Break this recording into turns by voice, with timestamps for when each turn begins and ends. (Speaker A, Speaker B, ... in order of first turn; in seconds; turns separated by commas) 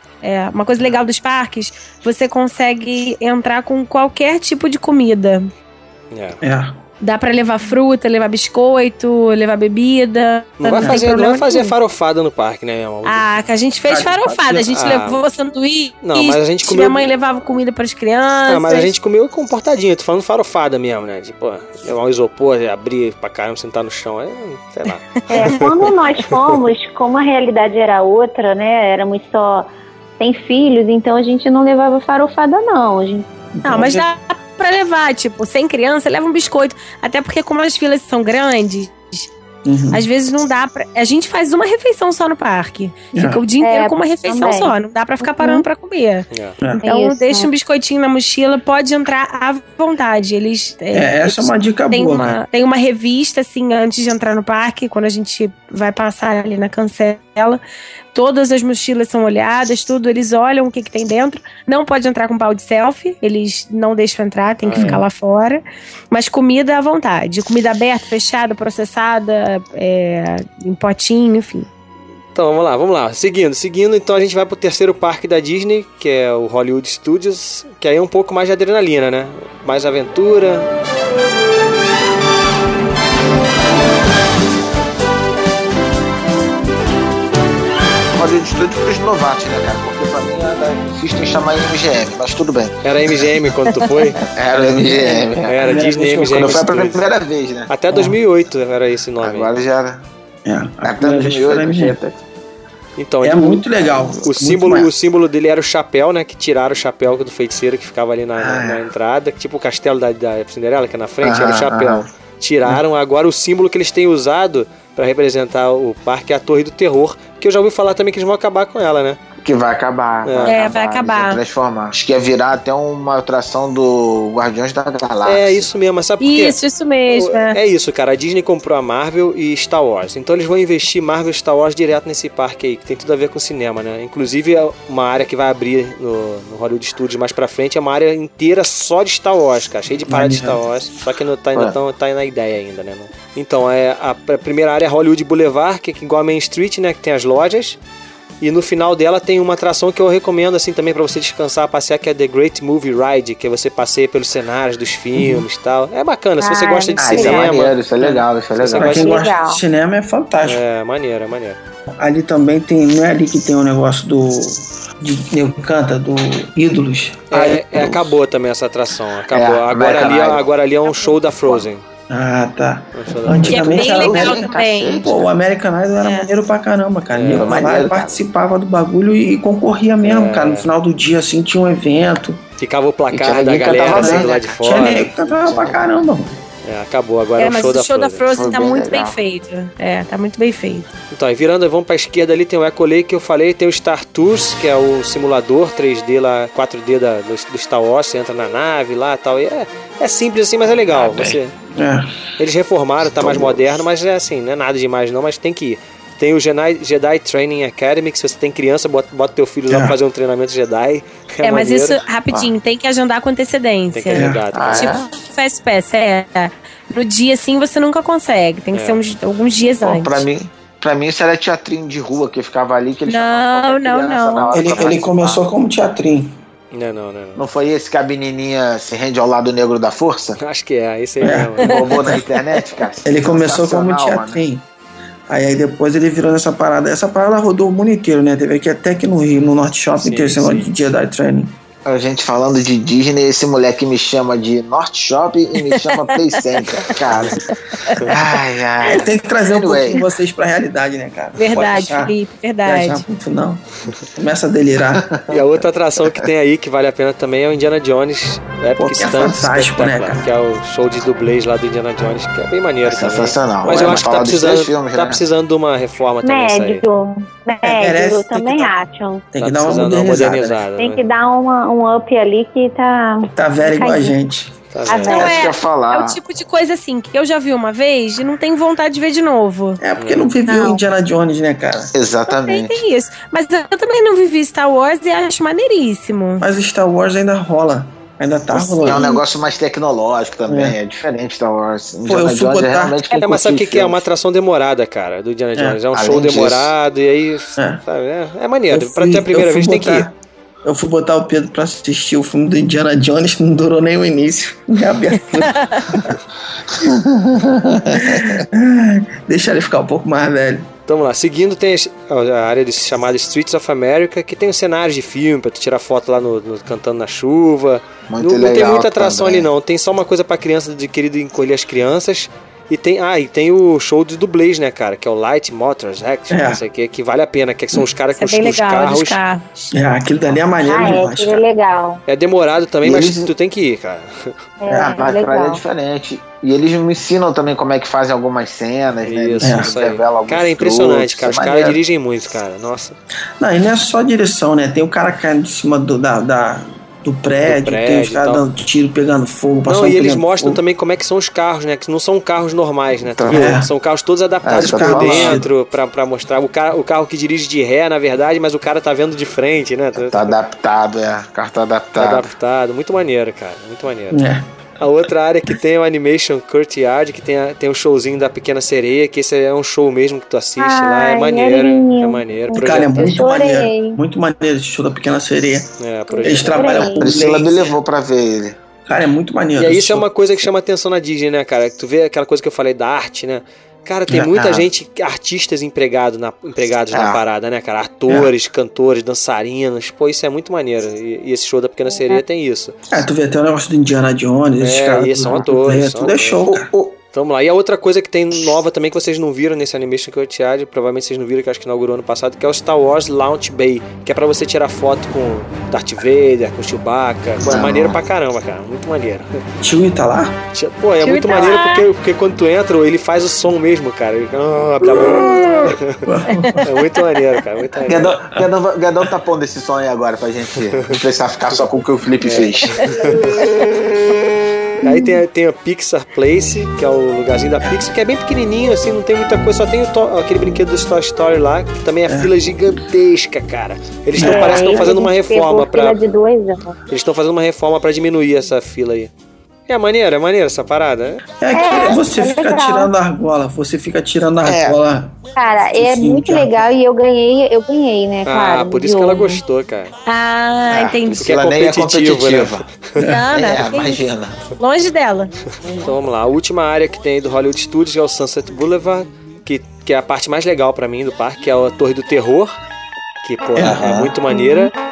Speaker A: 0.2-5.5, Speaker B: 6.1-6.4, Speaker C: 6.4-6.8, Speaker A: 7.0-11.7, Speaker B: 10.6-13.4, Speaker A: 13.0-18.9, Speaker C: 13.9-14.8, Speaker B: 14.7-15.2, Speaker B: 16.0-17.1, Speaker B: 18.5-26.6, Speaker D: 25.3-33.2, Speaker C: 33.6-34.0, Speaker A: 33.6-39.3, Speaker C: 39.6-40.0, Speaker A: 39.9-46.3, Speaker C: 43.1-43.4, Speaker D: 43.6-45.6, Speaker B: 46.3-46.6, Speaker D: 46.8-47.5, Speaker A: 46.8-57.6, Speaker C: 50.9-52.4, Speaker A: 58.1-71.7, Speaker B: 64.6-65.0, Speaker C: 64.8-65.0, Speaker B: 72.3-80.7, Speaker E: 88.1-92.8, Speaker B: 92.8-94.2, Speaker E: 94.2-97.7, Speaker C: 94.5-96.6, Speaker B: 95.4-97.0, Speaker B: 97.7-99.5, Speaker C: 97.9-98.2, Speaker E: 99.2-100.0, Speaker C: 100.5-101.9, Speaker E: 100.8-102.2, Speaker B: 103.0-119.2, Speaker C: 103.2-104.9, Speaker E: 108.4-108.8, Speaker E: 111.2-112.1, Speaker E: 119.4-125.7, Speaker B: 120.2-120.6, Speaker A: 120.5-121.4, Speaker B: 125.2-147.8, Speaker A: 126.2-127.6, Speaker C: 140.1-140.6, Speaker B: 148.4-157.8, Speaker C: 155.2-155.4, Speaker D: 156.4-157.5, Speaker E: 157.0-159.1, Speaker B: 158.6-159.2, Speaker C: 158.7-160.6, Speaker D: 158.9-159.6, Speaker B: 160.4-161.6, Speaker C: 162.0-168.0, Speaker B: 167.3-171.8, Speaker E: 169.3-170.5, Speaker C: 172.1-182.4, Speaker B: 172.9-173.8, Speaker A: 173.5-175.1, Speaker E: 173.7-175.3, Speaker A: 176.0-176.3, Speaker B: 177.1-177.6, Speaker E: 177.3-178.2, Speaker B: 180.0-180.7, Speaker B: 182.6-185.1, Speaker E: 183.1-185.8, Speaker C: 183.8-186.4, Speaker B: 186.6-188.3, Speaker A: 187.4-190.9, Speaker E: 188.3-189.2, Speaker B: 191.1-201.5, Speaker E: 200.9-201.4, Speaker C: 201.8-202.2, Speaker B: 202.4-212.0, Speaker E: 203.1-203.7, Speaker C: 209.7-209.9, Speaker A: 211.4-220.2, Speaker B: 213.9-215.0, Speaker C: 214.1-214.5, Speaker E: 214.5-215.1, Speaker B: 218.7-219.0, Speaker E: 219.8-225.4, Speaker A: 223.1-224.5, Speaker C: 224.5-226.3, Speaker B: 226.7-227.4, Speaker E: 227.3-230.4, Speaker B: 230.4-232.2, Speaker C: 231.2-231.7, Speaker E: 231.6-234.4, Speaker C: 233.0-234.6, Speaker C: 235.3-241.5, Speaker B: 240.0-240.7, Speaker E: 241.8-247.4, Speaker A: 245.6-246.1, Speaker B: 247.1-247.3, Speaker A: 247.8-248.0, Speaker E: 248.0-250.0, Speaker C: 248.8-252.1, Speaker A: 251.4-253.0, Speaker C: 252.6-255.2, Speaker E: 254.9-255.5, Speaker B: 255.3-266.8, Speaker E: 256.0-256.3, Speaker C: 258.8-260.2, Speaker E: 262.8-265.2, Speaker D: 266.2-269.2, Speaker C: 267.6-268.7, Speaker C: 269.3-270.6, Speaker B: 269.4-271.0, Speaker D: 270.8-274.1, Speaker C: 273.3-274.5, Speaker B: 274.7-275.3, Speaker D: 274.9-275.4, Speaker E: 275.0-276.2, Speaker A: 275.0-279.8, Speaker C: 279.8-281.9, Speaker B: 280.0-280.3, Speaker D: 280.5-280.8, Speaker E: 281.9-282.8, Speaker A: 282.3-286.4, Speaker C: 286.4-289.1, Speaker E: 288.5-294.0, Speaker C: 290.5-290.8, Speaker C: 292.1-293.0, Speaker B: 293.1-300.1, Speaker E: 295.9-296.7, Speaker C: 298.7-300.1, Speaker C: 300.6-306.2, Speaker E: 306.8-308.4, Speaker C: 307.9-310.7, Speaker B: 310.9-329.2, Speaker E: 318.1-319.5, Speaker C: 326.3-326.6, Speaker A: 328.1-329.7, Speaker C: 329.7-331.4, Speaker D: 330.6-332.0, Speaker B: 332.1-334.4, Speaker E: 332.8-333.3, Speaker D: 334.6-335.6, Speaker C: 334.7-335.0, Speaker E: 334.8-341.8, Speaker B: 339.0-343.0, Speaker C: 339.4-339.7, Speaker C: 343.4-350.6, Speaker B: 347.4-348.4, Speaker B: 349.6-360.4, Speaker E: 353.1-353.6, Speaker C: 353.3-353.7, Speaker E: 354.4-355.4, Speaker C: 354.5-355.5, Speaker E: 359.9-362.3, Speaker B: 361.9-364.2, Speaker C: 364.1-364.5, Speaker B: 364.8-373.1, Speaker D: 370.6-374.0, Speaker C: 372.6-375.7, Speaker B: 375.8-376.7, Speaker D: 376.1-377.2, Speaker C: 376.2-377.7, Speaker E: 376.8-378.6, Speaker C: 378.9-380.1, Speaker B: 379.6-392.7, Speaker E: 384.1-384.7, Speaker E: 386.9-387.2, Speaker D: 391.9-392.2, Speaker C: 392.9-396.7, Speaker B: 394.6-396.4, Speaker E: 396.5-397.0, Speaker B: 397.1-409.4, Speaker E: 407.4-408.0, Speaker C: 409.6-410.4, Speaker B: 410.5-416.1, Speaker A: 411.0-411.8, Speaker C: 414.8-416.7, Speaker A: 416.3-416.6, Speaker B: 416.6-418.1, Speaker E: 417.8-422.9, Speaker B: 422.2-423.2, Speaker B: 424.8-436.0, Speaker C: 432.1-432.3, Speaker C: 434.1-434.9, Speaker D: 434.2-436.8, Speaker B: 436.9-439.1, Speaker B: 439.7-441.3, Speaker C: 441.4-445.2, Speaker D: 441.5-442.9, Speaker E: 444.4-444.8, Speaker D: 445.4-449.4, Speaker C: 445.8-446.7, Speaker B: 448.2-449.9, Speaker A: 450.1-451.3, Speaker E: 450.7-452.6, Speaker B: 451.2-452.9, Speaker C: 453.0-453.2, Speaker A: 453.0-455.3, Speaker E: 453.3-454.4, Speaker B: 455.6-462.5, Speaker B: 463.2-464.7, Speaker E: 463.6-464.1